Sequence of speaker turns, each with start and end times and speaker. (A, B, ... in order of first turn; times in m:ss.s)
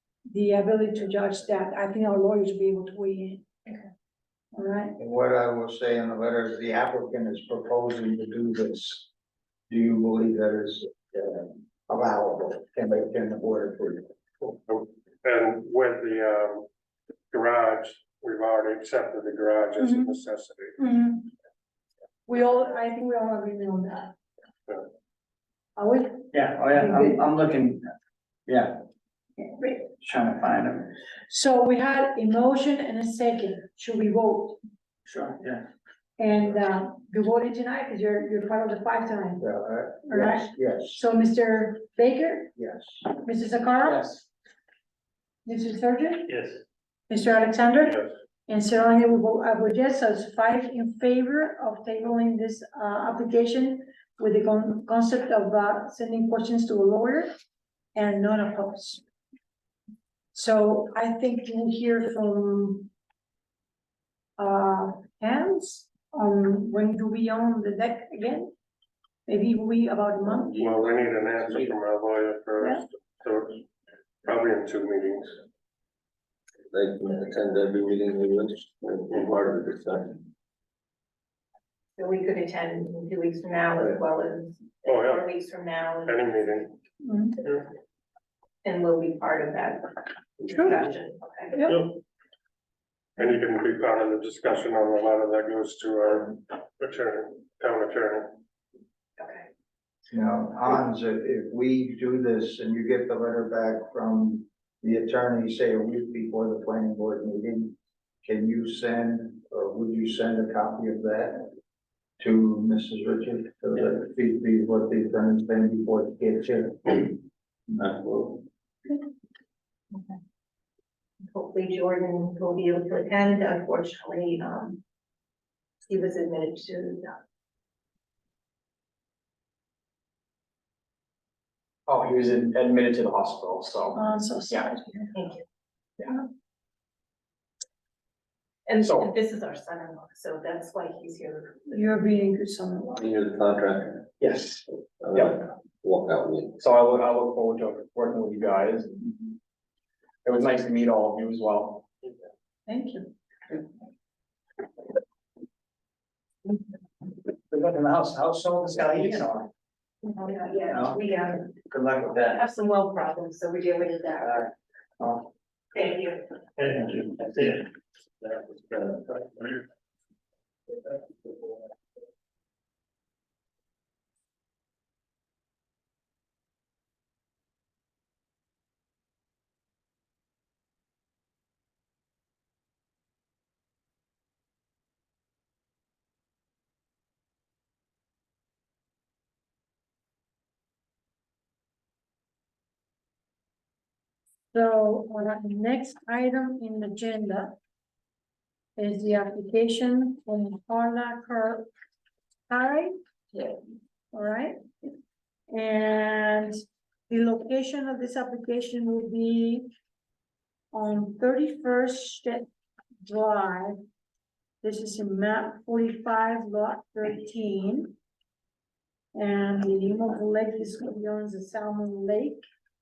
0:00.3-0:03.5 A
0:04.5-0:05.0 A
0:05.0-0:09.1 B
0:09.7-0:14.6 B
0:14.7-0:16.7 C
0:17.3-0:20.8 C
0:19.8-0:20.2 A
0:20.8-0:21.3 A
0:22.3-0:24.1 A
0:25.8-0:27.2 A
0:26.3-0:27.8 D
0:28.5-0:28.8 D
0:30.0-0:30.9 D
0:31.3-0:34.6 A
0:35.1-0:35.6 D
0:36.2-0:39.4 A
0:39.4-0:41.0 B
0:40.1-0:42.5 A
0:42.6-0:43.0 B
0:43.2-0:44.0 A
0:43.8-0:44.2 D
0:45.4-0:46.4 A
0:47.1-0:57.3 A
0:57.9-0:59.0 A
1:00.3-1:02.9 A
1:04.4-1:08.5 A
1:09.3-1:10.5 A
1:10.5-1:13.6 C
1:10.6-1:10.8 E
1:12.6-1:12.8 A
1:14.2-1:15.4 C
1:16.7-1:20.2 E
1:22.0-1:26.3 F
1:24.8-1:25.3 C
1:26.0-1:26.7 C
1:27.0-1:27.4 A
1:28.6-1:31.6 F
1:31.5-1:31.8 A
1:31.6-1:32.0 C
1:33.2-1:38.4 C
1:39.2-1:39.4 F
1:40.1-1:51.5 B
1:52.2-1:57.2 B
1:57.7-1:58.4 E
2:01.3-2:04.8 F
2:05.9-2:07.2 F
2:11.9-2:14.6 D
2:13.9-2:15.1 A
2:15.1-2:15.4 F
2:18.7-2:21.6 F
2:18.8-2:19.1 D
2:21.7-2:23.0 A
2:22.9-2:24.1 E
2:24.2-2:25.4 D
2:25.0-2:26.5 E
2:26.5-2:29.1 D
2:30.2-2:31.8 D
2:32.7-2:33.1 A
2:37.5-2:39.5 D
2:40.0-2:41.5 F
2:41.7-2:42.4 D
2:42.2-2:44.5 F
2:45.7-2:46.3 F
2:46.8-2:47.3 C
2:48.4-2:49.4 C
3:14.5-3:17.6 A
3:18.8-3:21.7 A
3:22.5-3:23.5 A
3:24.1-3:24.9 A
3:25.5-3:26.6 A
3:27.1-3:29.7 A
3:30.7-3:32.5 A
3:33.0-3:33.8 A
3:34.6-3:38.0 A
3:39.1-3:42.4 A